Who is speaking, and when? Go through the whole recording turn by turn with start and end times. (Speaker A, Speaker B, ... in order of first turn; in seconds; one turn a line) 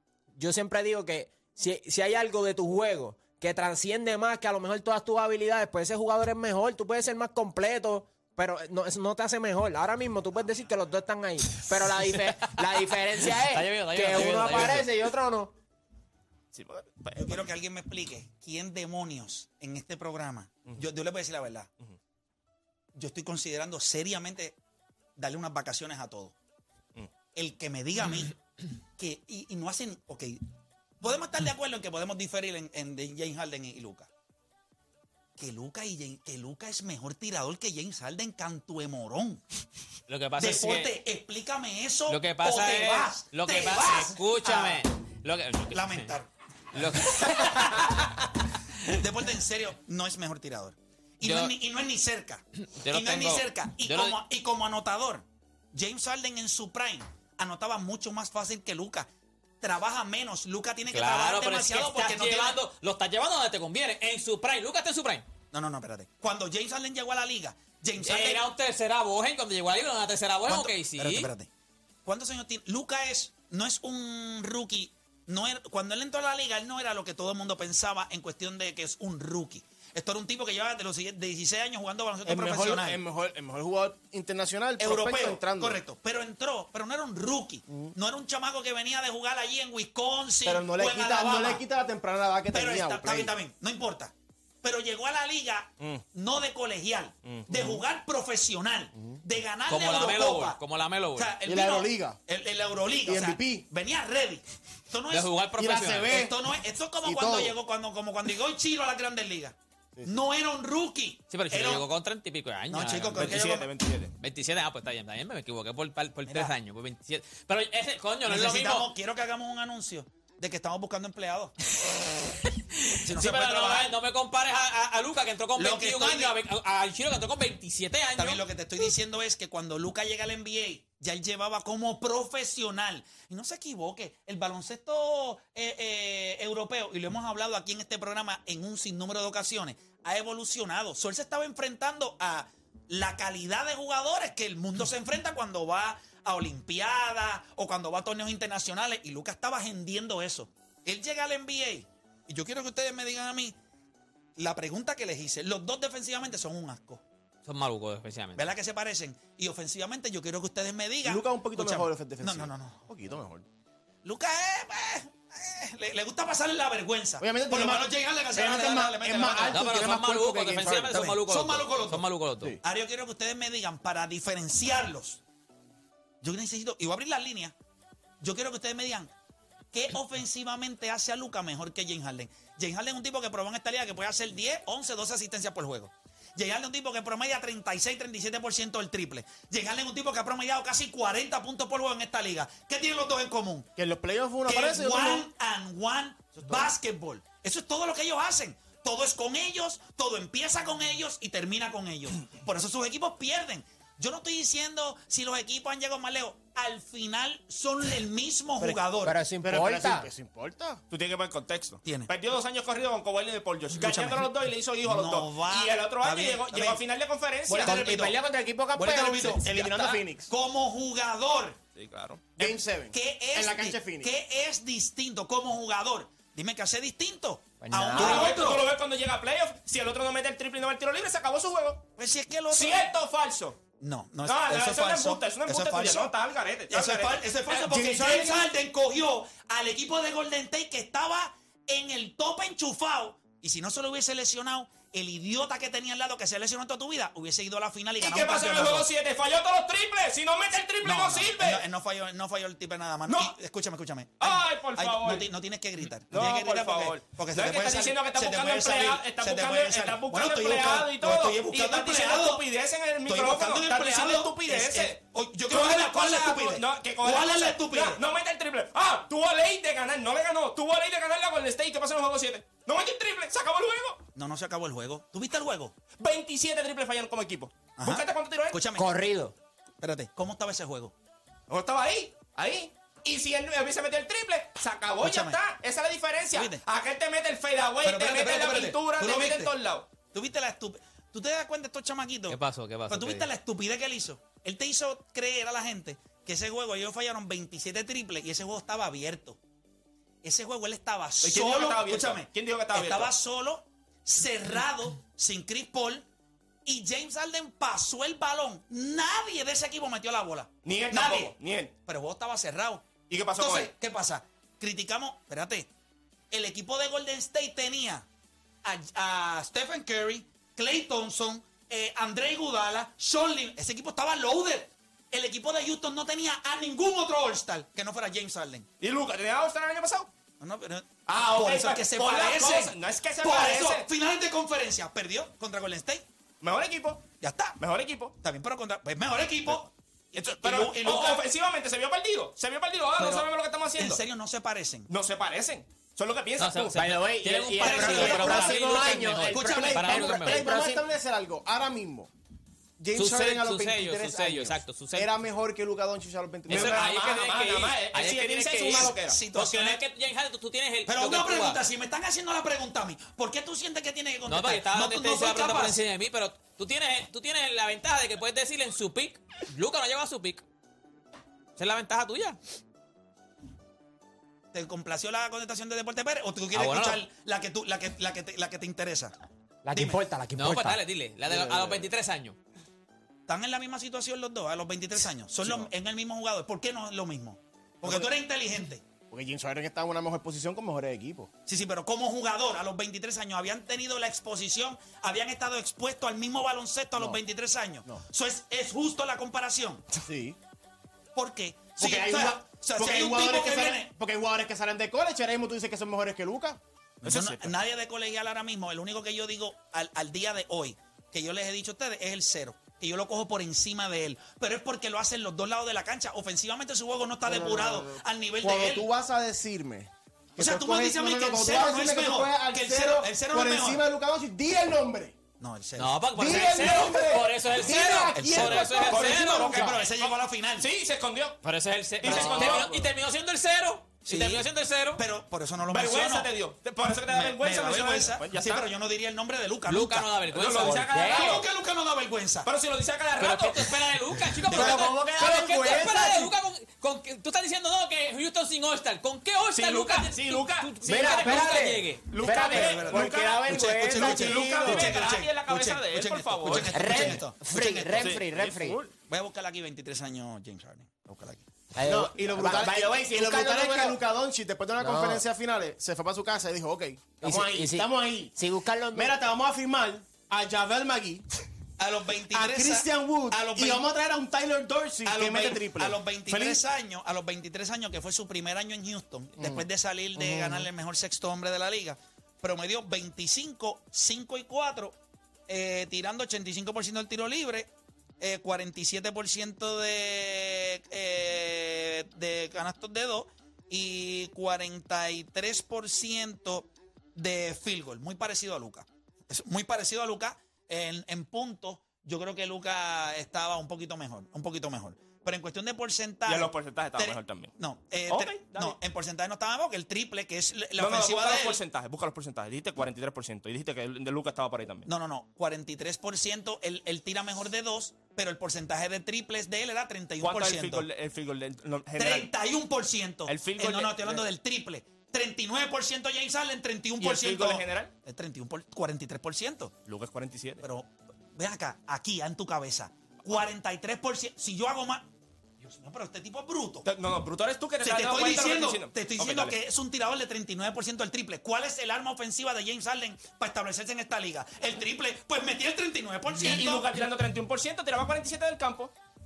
Speaker A: 0.4-15.5
Speaker B: 13.5-14.9
Speaker C: 14.3-14.6
Speaker C: 16.5-17.5
Speaker D: 17.2-21.7
Speaker D: 22.9-24.6
Speaker D: 25.2-26.3
Speaker D: 27.3-28.4
Speaker D: 29.0-30.4
Speaker D: 31.0-34.1
Speaker D: 35.4-39.4
Speaker B: 40.1-40.9
Speaker D: 40.4-44.9
Speaker B: 42.1-46.1
Speaker D: 45.7-48.1
Speaker B: 46.7-48.3
Speaker D: 48.9-59.1
Speaker B: 51.2-51.5
Speaker B: 52.8-54.2
Speaker D: 59.6-62.6
Speaker B: 60.9-65.2
Speaker D: 65.5-68.5
Speaker B: 68.0-71.3
Speaker D: 70.5-71.5
Speaker D: 72.0-83.0
Speaker E: 82.2-85.8
Speaker D: 84.8-91.6
Speaker E: 90.4-93.3
Speaker D: 92.5-100.6
Speaker C: 97.2-97.5
Speaker B: 99.7-101.3
Speaker D: 101.2-105.4
Speaker E: 101.4-102.2
Speaker E: 103.1-103.7
Speaker B: 105.1-106.2
Speaker E: 105.6-106.4
Speaker D: 106.1-111.9
Speaker E: 107.0-107.6
Speaker B: 111.3-113.4
Speaker D: 112.7-113.7
Speaker C: 113.2-114.1
Speaker B: 114.2-118.9
Speaker D: 118.3-121.5
Speaker B: 122.8-128.4
Speaker D: 123.0-123.9
Speaker D: 125.6-126.3
Speaker D: 128.2-153.6
Speaker D: 154.4-157.0
Speaker B: 157.5-158.5
Speaker D: 158.4-162.8
Speaker E: 161.0-163.4
Speaker D: 164.0-169.6
Speaker E: 167.2-171.2
Speaker B: 169.5-172.6
Speaker D: 171.1-172.1
Speaker D: 172.6-175.2
Speaker D: 176.2-177.6
Speaker D: 178.2-179.1
Speaker D: 179.7-193.7
Speaker E: 193.8-195.3
Speaker D: 194.5-209.2
Speaker A: 209.0-210.1
Speaker E: 209.4-210.8
Speaker C: 210.9-217.9
Speaker D: 211.8-212.1
Speaker D: 213.7-216.8
Speaker D: 217.5-218.2
Speaker A: 217.6-219.4
Speaker D: 218.7-221.6
Speaker E: 219.2-220.3
Speaker C: 219.5-219.9
Speaker C: 221.8-222.6
Speaker E: 222.4-224.1
Speaker D: 222.9-228.7
Speaker A: 227.6-228.4
Speaker C: 227.9-231.8
Speaker D: 232.0-232.9
Speaker C: 232.5-233.6
Speaker D: 233.8-236.2
Speaker C: 234.2-237.6
Speaker D: 236.7-248.9
Speaker E: 237.6-238.5
Speaker C: 248.0-251.7
Speaker D: 250.8-262.5
Speaker C: 253.1-253.4
Speaker C: 254.2-255.3
Speaker C: 256.1-274.0
Speaker D: 263.1-268.0
Speaker D: 274.1-275.8
Speaker C: 276.0-278.6
Speaker D: 277.8-278.9
Speaker A: 278.8-279.3
Speaker D: 279.8-280.9
Speaker C: 281.5-289.9
Speaker D: 285.0-285.4
Speaker D: 286.3-286.6
Speaker D: 287.8-292.4
Speaker B: 292.3-293.3
Speaker D: 292.9-299.4
Speaker D: 300.2-306.1
Speaker C: 301.2-303.1
Speaker D: 306.6-315.7
Speaker C: 310.6-311.7
Speaker C: 313.1-313.7
Speaker D: 316.3-318.1
Speaker D: 318.6-328.7
Speaker C: 328.8-330.1
Speaker D: 330.4-336.0
Speaker C: 331.1-333.9
Speaker C: 336.4-337.1
Speaker D: 337.2-337.6
Speaker C: 337.6-338.1
Speaker D: 338.2-341.3
Speaker C: 340.1-344.0
Speaker D: 343.0-344.9
Speaker C: 344.9-346.9
Speaker B: 346.4-350.7
Speaker A: 346.8-350.8
Speaker D: 347.6-350.3
Speaker E: 348.1-352.1
Speaker E: 352.8-356.8
Speaker B: 352.9-355.1
Speaker C: 356.5-359.2
Speaker B: 356.5-361.6
Speaker D: 358.6-359.8
Speaker D: 360.9-365.8
Speaker B: 364.3-370.4
Speaker B: 371.6-372.4
Speaker D: 374.5-379.1
Speaker B: 376.5-377.0
Speaker A: 379.6-381.4
Speaker D: 379.7-380.0
Speaker B: 380.4-382.4
Speaker D: 383.3-388.9
Speaker E: 387.8-388.1
Speaker E: 389.1-391.3
Speaker D: 391.5-399.9
Speaker E: 400.0-400.4
Speaker D: 401.1-403.9
Speaker E: 401.8-406.6
Speaker D: 407.0-418.9
Speaker C: 407.0-407.5
Speaker E: 417.2-425.2
Speaker D: 420.4-423.9
Speaker D: 425.4-426.9
Speaker B: 425.8-429.7
Speaker E: 426.1-429.8
Speaker D: 428.1-430.7
Speaker C: 428.9-431.4
Speaker B: 431.4-435.0
Speaker C: 432.0-432.9
Speaker D: 432.1-432.6
Speaker D: 434.1-436.3
Speaker C: 435.7-438.7
Speaker D: 437.1-440.2
Speaker B: 439.7-441.4
Speaker C: 440.3-441.5
Speaker A: 440.8-441.3
Speaker D: 441.0-442.5
Speaker C: 442.4-443.9
Speaker B: 443.2-452.1
Speaker D: 444.5-445.0
Speaker A: 444.8-446.0
Speaker E: 444.8-445.9
Speaker C: 449.5-451.4
Speaker A: 450.9-454.9
Speaker C: 452.1-457.2
Speaker D: 452.4-453.1
Speaker D: 453.9-458.2
Speaker A: 456.7-458.8
Speaker C: 458.0-458.9
Speaker D: 459.1-461.4
Speaker A: 461.7-464.0
Speaker E: 461.9-468.4
Speaker A: 464.8-465.2
Speaker A: 467.2-469.2
Speaker E: 468.9-471.2
Speaker D: 471.8-473.9
Speaker E: 472.3-476.6
Speaker D: 475.1-484.9
Speaker E: 479.4-480.7
Speaker D: 485.5-511.6
Speaker C: 506.2-507.5
Speaker C: 508.1-508.8
Speaker C: 510.8-514.9
Speaker D: 514.9-520.9
Speaker C: 520.2-522.3
Speaker D: 522.0-529.8
Speaker C: 523.3-524.2
Speaker C: 527.0-527.9
Speaker C: 529.9-530.6
Speaker D: 530.6-535.1
Speaker D: 535.6-536.9
Speaker C: 536.9-539.6
Speaker D: 537.8-547.0
Speaker C: 546.4-548.9